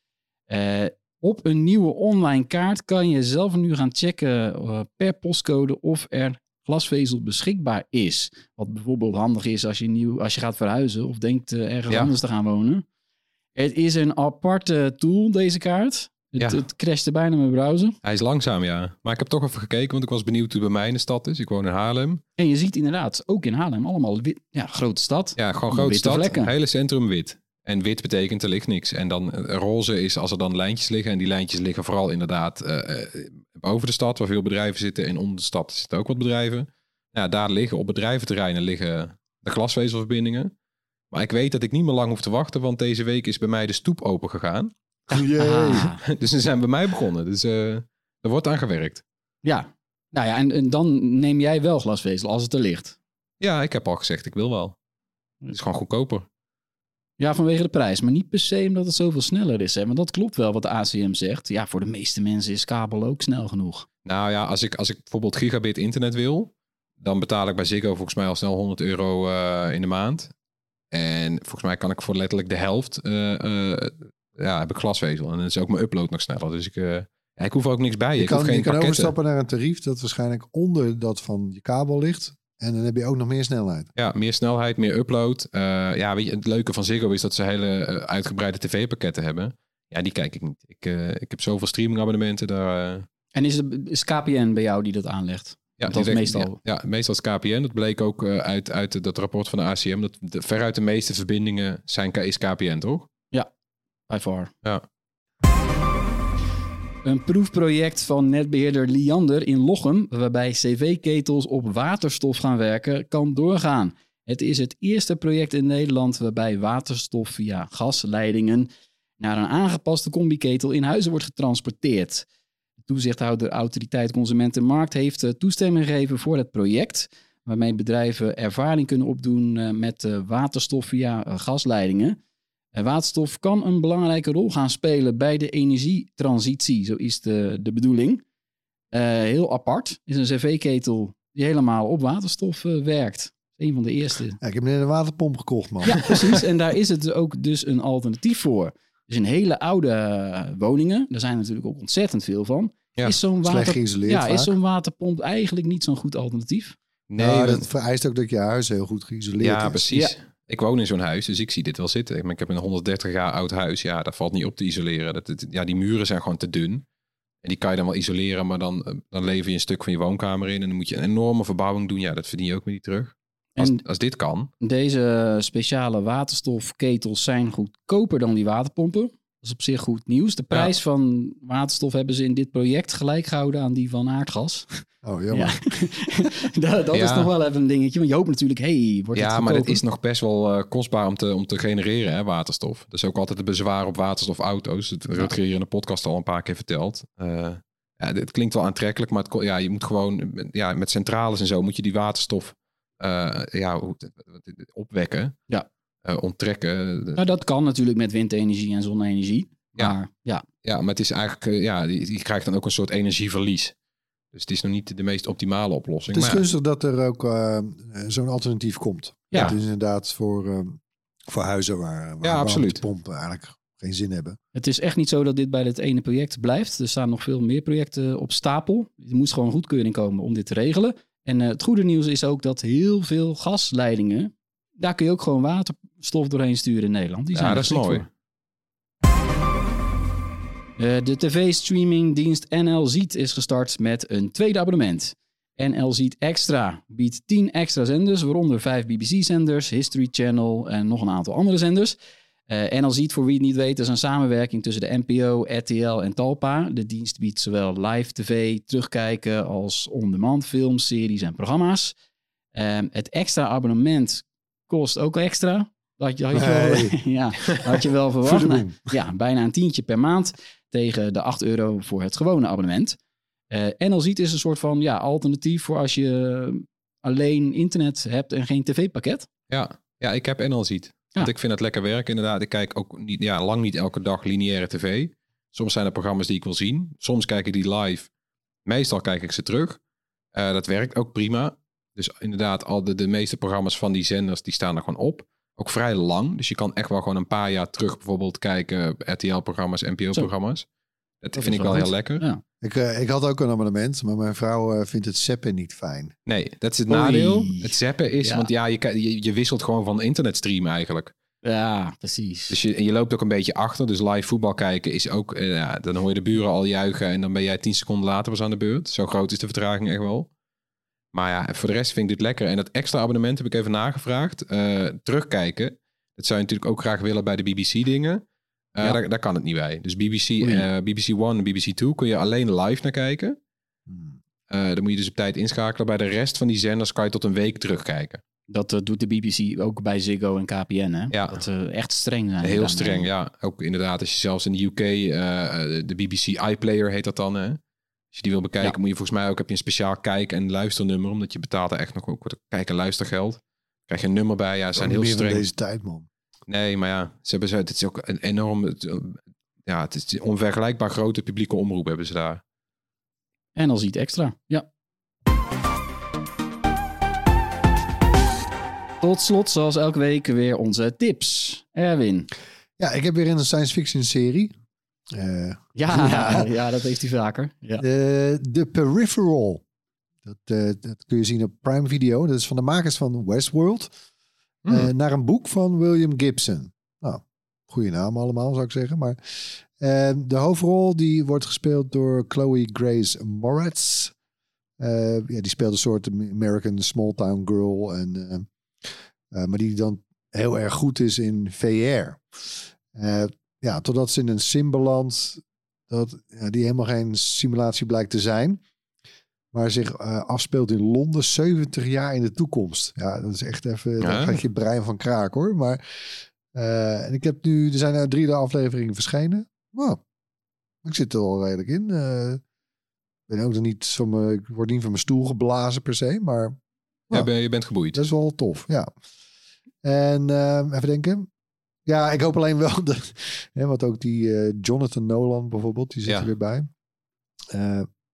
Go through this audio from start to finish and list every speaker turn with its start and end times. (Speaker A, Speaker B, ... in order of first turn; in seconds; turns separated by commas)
Speaker A: 0.5-12.8, Speaker A: 13.6-18.0, Speaker B: 18.0-22.2, Speaker A: 22.4-26.5, Speaker B: 25.4-40.5, Speaker B: 41.1-44.7, Speaker C: 45.1-45.9, Speaker A: 45.4-46.0, Speaker B: 46.1-49.0, Speaker A: 49.4-53.0, Speaker B: 53.4-54.8, Speaker B: 55.5-56.3, Speaker A: 57.2-63.9, Speaker B: 64.0-70.3, Speaker B: 70.9-79.1, Speaker C: 78.2-83.9, Speaker B: 84.0-93.1, Speaker A: 93.3-96.6, Speaker B: 95.8-103.1, Speaker A: 104.1-104.5, Speaker A: 107.0-122.2, Speaker A: 122.9-132.2, Speaker A: 132.8-138.2, Speaker A: 138.9-144.4, Speaker C: 144.4-146.1, Speaker A: 145.8-156.8, Speaker C: 153.4-154.6, Speaker B: 157.1-157.7, Speaker C: 157.2-159.8, Speaker B: 159.4-166.8, Speaker B: 167.4-174.5, Speaker A: 173.6-173.8, Speaker A: 174.6-189.8, Speaker C: 185.0-185.7, Speaker B: 186.9-187.3, Speaker B: 189.2-205.4, Speaker B: 206.1-207.2, Speaker A: 207.2-210.4, Speaker B: 210.6-213.7, Speaker B: 214.3-216.4, Speaker C: 216.1-224.4, Speaker B: 222.2-222.8, Speaker A: 224.6-238.1, Speaker B: 237.3-238.1, Speaker A: 240.8-252.0, Speaker A: 252.5-261.9, Speaker A: 262.5-273.0, Speaker C: 266.3-267.0, Speaker C: 268.2-268.8, Speaker A: 273.5-279.3, Speaker B: 279.5-288.1, Speaker B: 288.7-289.8, Speaker B: 290.3-300.7, Speaker B: 301.2-302.2, Speaker A: 301.4-302.4, Speaker C: 302.6-306.1, Speaker B: 306.3-311.1, Speaker A: 306.9-308.5, Speaker A: 311.4-312.6, Speaker B: 312.5-320.3, Speaker B: 321.1-328.2, Speaker B: 328.8-333.4, Speaker A: 330.4-330.7, Speaker C: 333.9-334.2, Speaker B: 334.5-338.2, Speaker A: 338.5-343.1, Speaker B: 341.1-341.4, Speaker B: 342.4-347.6, Speaker B: 348.1-355.4, Speaker C: 354.8-356.1, Speaker B: 356.5-362.4, Speaker A: 363.6-364.7, Speaker A: 369.0-372.3, Speaker C: 372.8-374.6, Speaker C: 375.1-376.5, Speaker A: 375.8-377.8, Speaker C: 377.8-379.6, Speaker C: 380.3-383.9, Speaker C: 384.7-394.1, Speaker C: 394.8-408.6, Speaker C: 409.5-420.0, Speaker B: 414.0-414.4, Speaker C: 420.8-422.4, Speaker C: 423.3-426.6, Speaker B: 427.1-428.0, Speaker C: 427.9-428.9, Speaker C: 429.8-431.3, Speaker C: 431.9-436.7, Speaker C: 437.5-437.9